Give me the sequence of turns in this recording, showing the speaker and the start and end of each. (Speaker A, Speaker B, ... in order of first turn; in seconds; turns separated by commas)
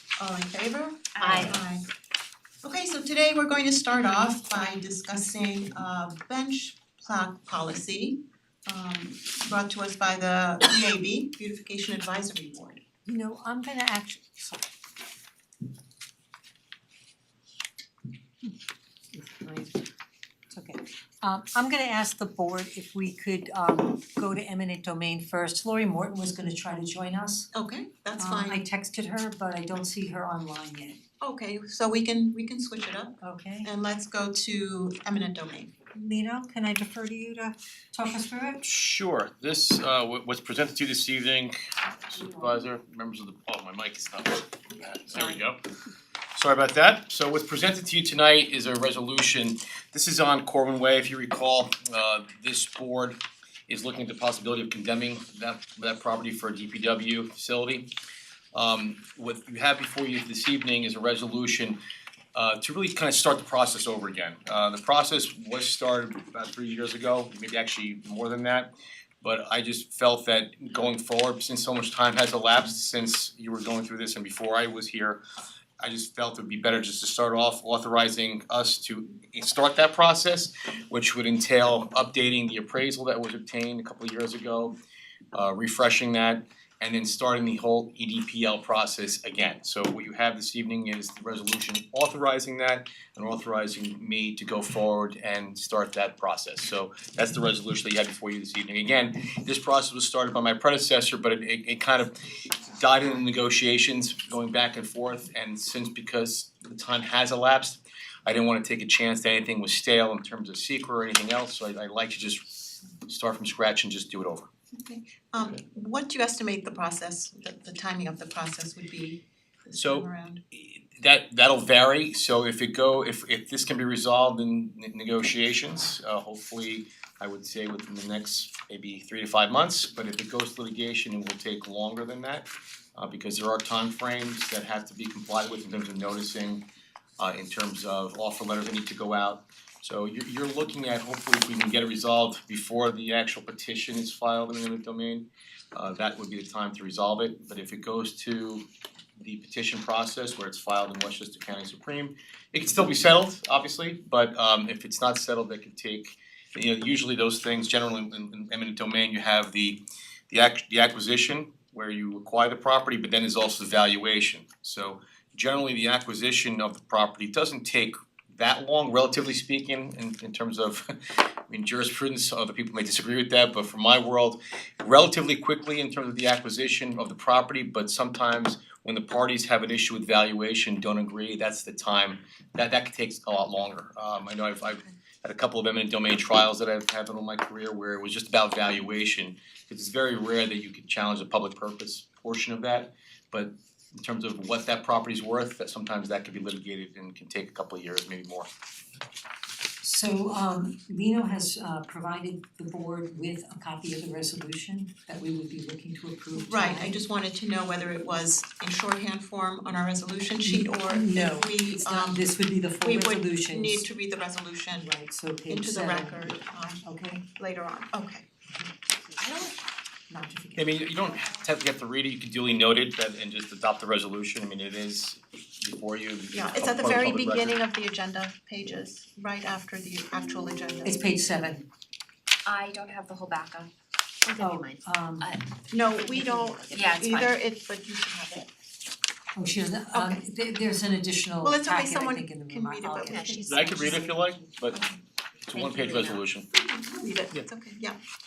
Speaker A: 0.2-1.9, Speaker B: 1.2-1.6, Speaker A: 2.6-12.8, Speaker C: 13.1-14.7, Speaker C: 19.2-19.7, Speaker C: 20.5-27.5, Speaker A: 27.5-28.6, Speaker C: 28.2-31.0, Speaker A: 31.2-35.7, Speaker C: 33.2-33.7, Speaker C: 36.0-38.6, Speaker D: 38.6-45.6, Speaker D: 46.4-57.9, Speaker D: 58.5-61.8, Speaker D: 62.4-68.7, Speaker D: 69.2-75.2, Speaker D: 75.8-84.8, Speaker D: 85.3-112.5, Speaker D: 113.0-114.5, Speaker A: 114.8-120.4, Speaker D: 119.8-136.7, Speaker D: 137.2-148.7, Speaker D: 149.2-198.5, Speaker C: 199.8-207.0, Speaker A: 206.3-212.3, Speaker C: 210.4-213.9, Speaker A: 212.8-214.9, Speaker C: 214.8-217.2, Speaker A: 215.5-218.3, Speaker C: 219.2-219.5, Speaker C: 220.1-220.8, Speaker D: 220.6-227.6, Speaker A: 226.3-231.0, Speaker C: 230.8-231.7, Speaker B: 232.4-233.7, Speaker B: 234.2-237.3, Speaker C: 234.4-235.3, Speaker A: 235.7-238.5, Speaker C: 239.3-243.8, Speaker A: 239.9-240.2, Speaker A: 241.4-243.6, Speaker B: 243.0-244.3, Speaker D: 243.4-244.8, Speaker A: 244.7-245.0, Speaker D: 245.5-246.5, Speaker B: 245.5-246.2, Speaker A: 246.5-248.0